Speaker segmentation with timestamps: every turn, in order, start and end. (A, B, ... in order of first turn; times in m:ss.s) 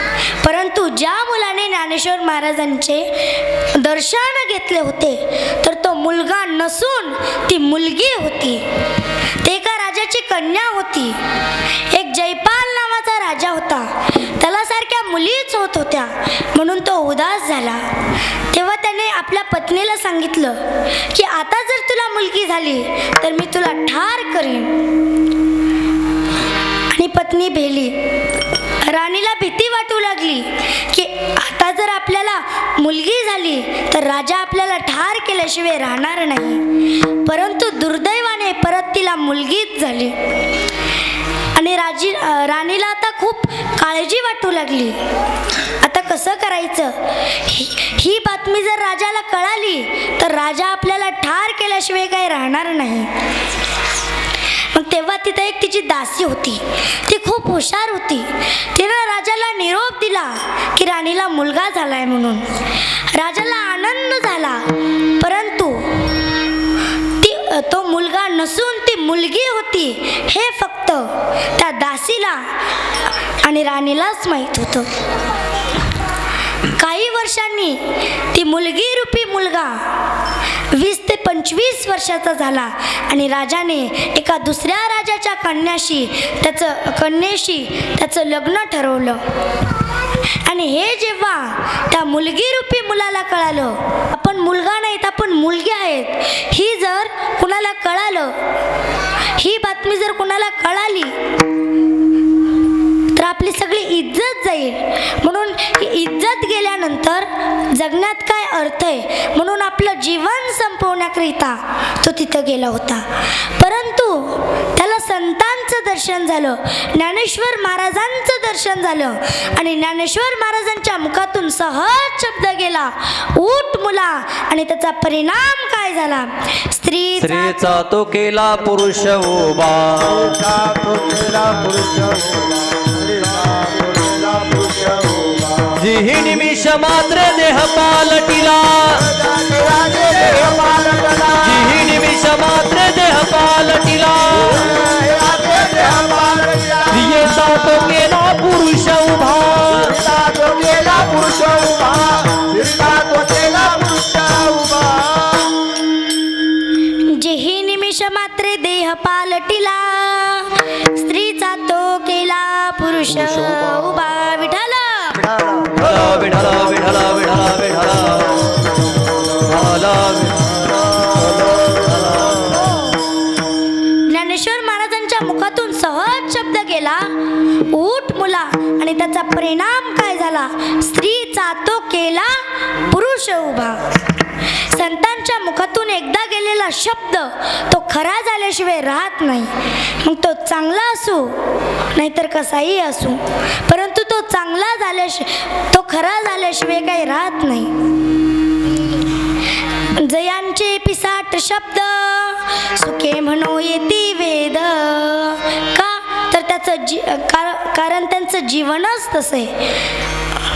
0:00.4-0:08.6 A
0:09.4-0:11.2 A
0:11.9-0:17.9 A
0:18.5-0:24.8 A
0:26.9-0:28.1 A
0:28.8-0:36.6 A
0:37.2-0:40.2 A
0:41.5-0:45.0 A
0:45.8-0:53.1 A
0:54.7-1:06.1 A
1:07.2-1:12.5 A
1:13.4-1:14.9 A
1:16.7-1:19.9 A
1:20.7-1:29.2 A
1:30.4-1:38.3 A
1:39.2-1:41.1 A
1:43.1-2:07.7 A
2:07.2-2:10.4 B
2:10.3-2:15.7 C
2:15.7-2:19.1 B
2:19.1-2:21.4 C
2:21.4-2:24.8 B
2:24.6-2:26.9 C
2:26.9-2:30.0 B
2:29.9-2:35.5 C
2:37.0-2:45.4 A
2:45.5-2:48.6 B
2:49.3-2:52.6 B
2:52.5-2:53.0 A
2:54.0-3:03.8 A
3:04.7-3:17.7 A
3:19.8-3:29.6 A